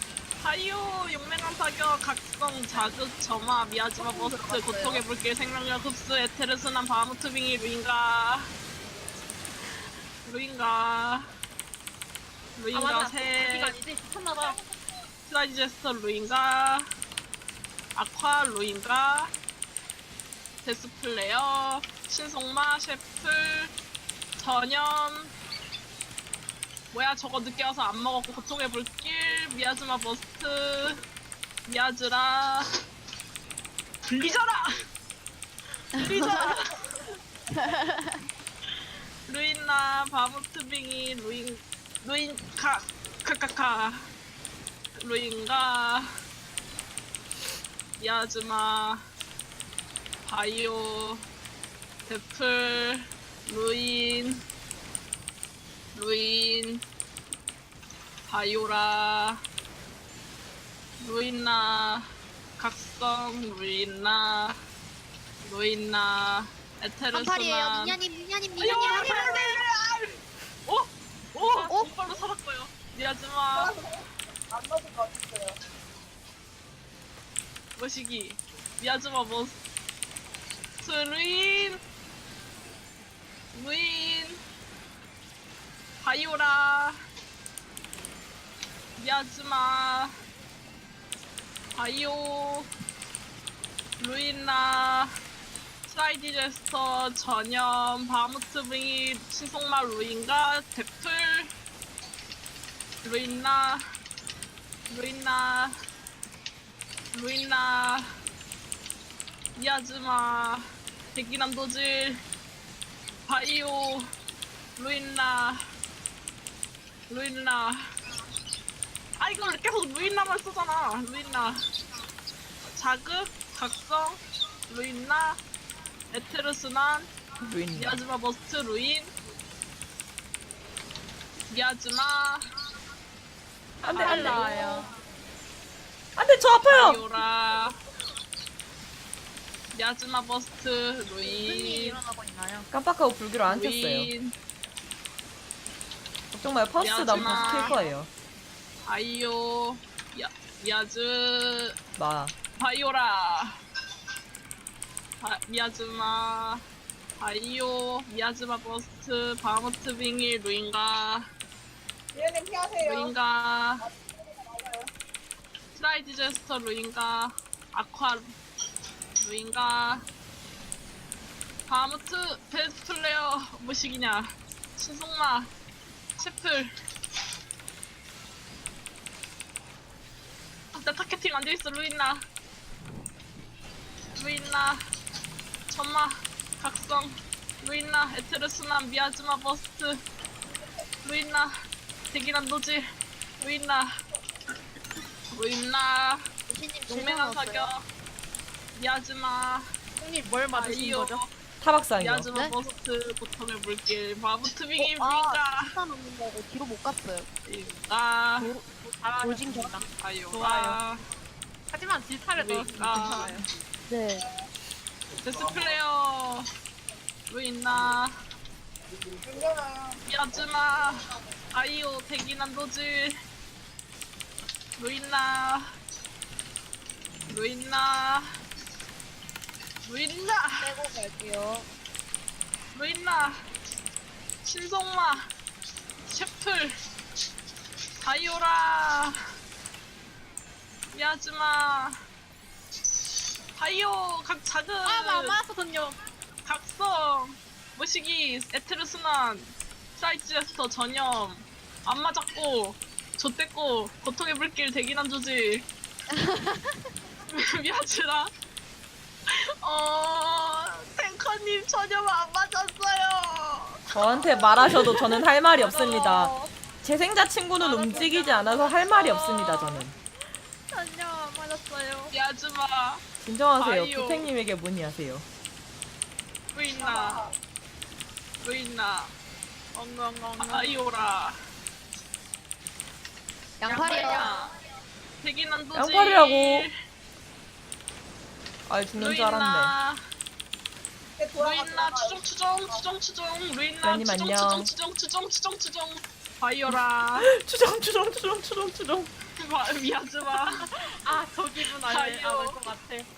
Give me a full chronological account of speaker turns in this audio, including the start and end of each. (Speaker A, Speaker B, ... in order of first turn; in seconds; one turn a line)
Speaker A: 0.4-8.5
Speaker B: 4.0-5.0
Speaker A: 10.2-11.3
Speaker A: 12.6-13.7
Speaker C: 12.7-14.6
Speaker A: 15.3-16.9
Speaker A: 18.0-19.3
Speaker A: 20.6-23.7
Speaker A: 24.4-25.3
Speaker A: 26.9-31.0
Speaker A: 31.7-32.7
Speaker A: 34.1-34.7
Speaker A: 36.0-36.9
Speaker B: 36.0-36.5
Speaker B: 37.5-38.3
Speaker A: 39.3-44.0
Speaker A: 45.0-46.1
Speaker A: 48.0-49.0
Speaker A: 50.3-51.2
Speaker A: 52.1-54.4
Speaker A: 55.9-56.8
Speaker A: 58.3-59.4
Speaker A: 61.0-62.1
Speaker A: 62.6-64.6
Speaker A: 65.4-68.0
Speaker B: 67.1-69.4
Speaker A: 68.6-70.1
Speaker A: 70.7-73.7
Speaker C: 71.4-72.2
Speaker D: 73.6-73.9
Speaker D: 74.5-75.6
Speaker A: 77.8-79.6
Speaker A: 80.8-81.8
Speaker A: 83.5-84.4
Speaker A: 86.0-87.0
Speaker A: 89.0-90.1
Speaker A: 91.8-92.7
Speaker A: 94.0-95.1
Speaker A: 95.9-101.5
Speaker A: 103.0-103.8
Speaker A: 104.9-105.7
Speaker A: 107.1-108.1
Speaker A: 109.6-112.2
Speaker A: 113.3-114.1
Speaker A: 114.8-115.6
Speaker A: 117.1-117.8
Speaker A: 119.2-121.6
Speaker A: 122.6-125.4
Speaker A: 126.1-127.1
Speaker E: 127.4-128.0
Speaker A: 127.7-129.1
Speaker A: 131.5-132.5
Speaker C: 133.8-134.9
Speaker E: 133.8-134.5
Speaker A: 134.0-134.6
Speaker E: 136.2-137.0
Speaker A: 136.7-137.8
Speaker A: 139.7-142.0
Speaker C: 141.2-142.7
Speaker E: 142.7-144.1
Speaker A: 143.5-144.3
Speaker E: 146.3-148.1
Speaker A: 146.8-147.8
Speaker C: 147.2-147.9
Speaker A: 148.8-151.8
Speaker E: 152.0-152.3
Speaker A: 152.6-153.5
Speaker A: 155.2-156.6
Speaker A: 157.2-161.3
Speaker D: 162.1-163.1
Speaker A: 162.8-163.9
Speaker D: 163.8-164.9
Speaker A: 165.8-168.2
Speaker A: 169.2-170.1
Speaker A: 171.7-175.5
Speaker A: 176.2-176.7
Speaker A: 180.7-182.2
Speaker A: 184.2-184.8
Speaker A: 185.7-190.0
Speaker A: 191.0-191.5
Speaker A: 192.1-192.8
Speaker A: 193.4-193.9
Speaker A: 195.3-196.2
Speaker B: 196.5-197.7
Speaker A: 196.9-197.8
Speaker A: 198.8-199.7
Speaker C: 200.0-201.2
Speaker A: 200.5-201.3
Speaker E: 201.6-202.3
Speaker A: 202.0-205.7
Speaker B: 204.8-207.3
Speaker A: 207.5-208.5
Speaker C: 208.4-210.8
Speaker B: 209.2-209.8
Speaker A: 210.0-211.0
Speaker C: 211.7-213.5
Speaker A: 212.3-213.3
Speaker B: 213.9-214.3
Speaker A: 215.2-216.5
Speaker A: 217.3-218.1
Speaker D: 219.2-220.0
Speaker A: 220.1-223.2
Speaker A: 224.8-225.6
Speaker A: 227.3-228.3
Speaker A: 229.8-230.7
Speaker B: 230.6-231.7
Speaker A: 232.7-233.4
Speaker A: 234.4-235.2
Speaker A: 236.1-236.7
Speaker A: 238.0-239.2
Speaker A: 240.9-242.0
Speaker A: 243.6-245.4
Speaker C: 244.8-246.0
Speaker A: 246.4-255.7
Speaker B: 256.1-256.9
Speaker A: 257.3-258.3
Speaker A: 259.6-264.9
Speaker E: 263.9-269.9
Speaker C: 265.6-266.5
Speaker C: 267.6-269.9
Speaker C: 270.7-272.1
Speaker A: 272.1-273.0
Speaker E: 273.2-275.3
Speaker A: 273.6-274.3
Speaker A: 276.5-277.2
Speaker D: 276.8-277.3
Speaker A: 278.4-279.1
Speaker C: 279.7-280.8
Speaker A: 280.4-281.4
Speaker B: 283.6-284.4
Speaker A: 283.7-284.5
Speaker C: 283.7-284.2
Speaker A: 285.2-286.7
Speaker E: 285.7-286.7
Speaker E: 288.7-289.8
Speaker A: 289.0-290.0
Speaker D: 291.2-292.9
Speaker A: 291.4-297.3
Speaker E: 293.8-294.7
Speaker E: 296.7-299.1
Speaker A: 299.4-300.6
Speaker C: 300.5-303.1
Speaker A: 301.8-302.6